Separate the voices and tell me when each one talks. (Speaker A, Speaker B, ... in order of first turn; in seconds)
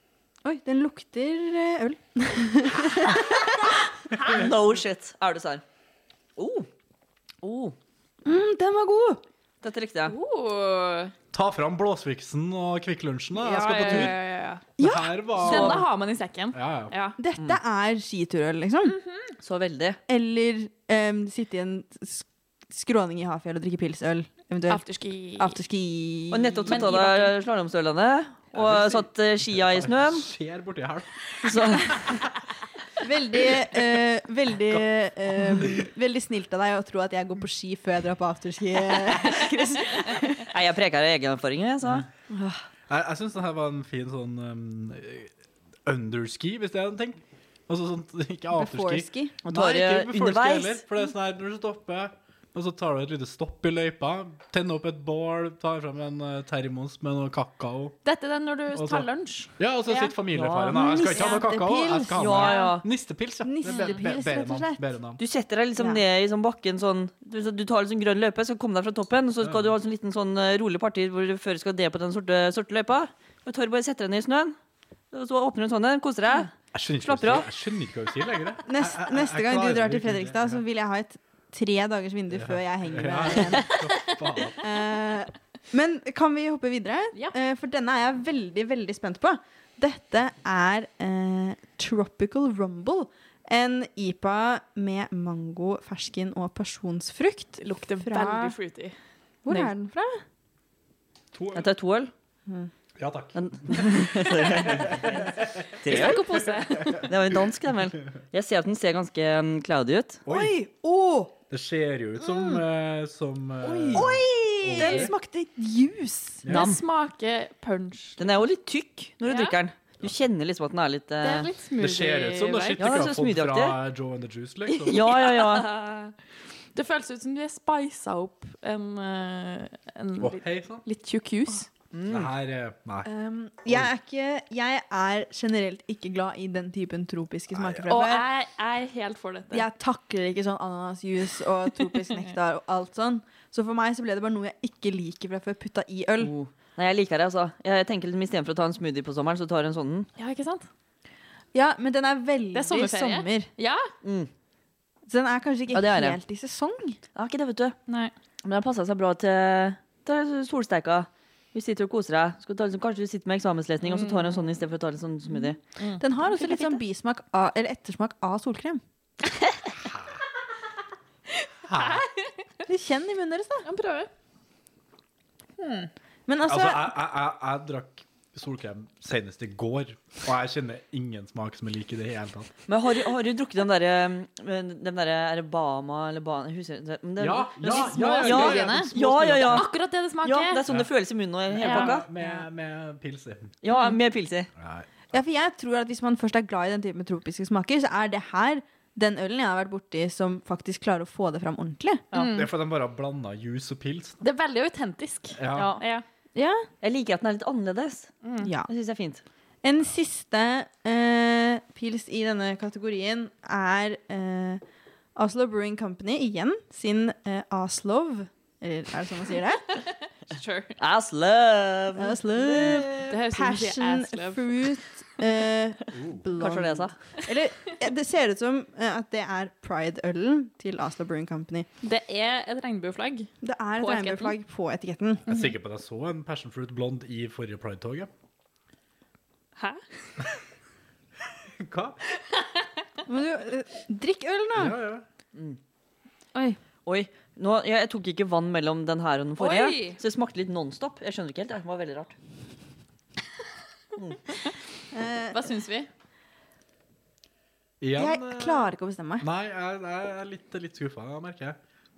Speaker A: 0.4-3.7, 8.2-9.2, 14.8-15.8, 17.2-19.0, 20.1-24.8, 25.4-26.8, 33.0-40.4, 42.3-42.6, 48.5-49.3, 60.7-62.7, 63.4-64.8, 78.7-83.7, 84.6-98.5, 99.4-100.2, 110.3-111.3, 113.9-116.4, 133.0-138.3, 139.5-146.3, 151.5-153.5, 155.1-157.0, 166.0-168.8, 172.7-173.7, 176.3-176.9, 195.1-202.0, 206.3-206.7, 208.4-208.7, 209.6-214.6, 215.2-219.6, 222.0-231.7, 233.4-235.2, 243.1-244.8, 254.9-255.4, 257.9-259.2
Speaker B: 4.2-5.6, 6.4-6.7, 7.4-7.8, 9.6-10.2, 13.8-14.1, 19.4-20.0, 26.3-30.2, 31.4-32.1, 40.5-42.1, 49.5-50.8, 60.3-60.8, 62.1-62.8, 65.2-74.5, 75.1-77.5, 101.5-102.1, 103.3-105.1, 105.8-106.4, 107.0-110.2, 113.6-114.1, 116.5-116.8, 118.2-121.5, 122.8-123.8, 124.8-125.8, 131.9-132.3, 146.2-150.1, 154.0-154.3, 155.7-156.2, 157.1-157.8, 158.4-165.6, 182.7-189.7, 190.2-192.1, 193.6-194.5, 205.5-205.8, 206.8-208.2, 208.7-209.2, 220.8-223.1, 226.4-227.0, 245.3-245.6, 246.8-252.1
Speaker C: 10.1-11.1, 13.4-14.6, 15.3-17.2, 18.9-19.3, 24.7-25.6, 26.7-27.3, 58.0-60.1, 97.6-98.9, 105.8-107.1, 116.5-118.4, 119.2-119.5, 121.2-122.8, 125.3-126.1, 126.7-131.7, 137.9-139.7, 150.2-150.7, 152.5-153.9, 157.9-158.1, 163.8-164.4, 165.3-166.8, 171.8-172.1, 173.6-174.1, 175.6-175.9, 187.7-190.6, 191.6-192.4, 202.1-202.5, 204.2-206.0, 208.2-208.5, 220.3-220.8, 223.1-224.7, 231.8-234.3, 239.6-240.2, 249.4-250.0, 255.3-255.9
Speaker D: 11.3-14.2, 14.8-15.9, 16.5-16.9, 28.5-32.3, 35.3-35.8, 42.9-45.3, 45.9-58.0, 58.7-65.2, 69.4-69.7, 76.7-80.6, 82.3-84.6, 101.3-101.7, 103.0-107.1, 110.2-110.6, 111.5-115.1, 116.4-116.7, 121.8-125.1, 130.2-130.8, 132.1-133.1, 137.5-137.9, 169.8-170.1, 171.6-172.0, 176.4-182.5, 187.2-189.7, 191.5-193.6, 194.6-195.2, 202.1-204.2, 205.3-205.8, 225.9-226.2, 235.2-238.1, 241.6-242.0, 244.6-245.0, 257.8-261.6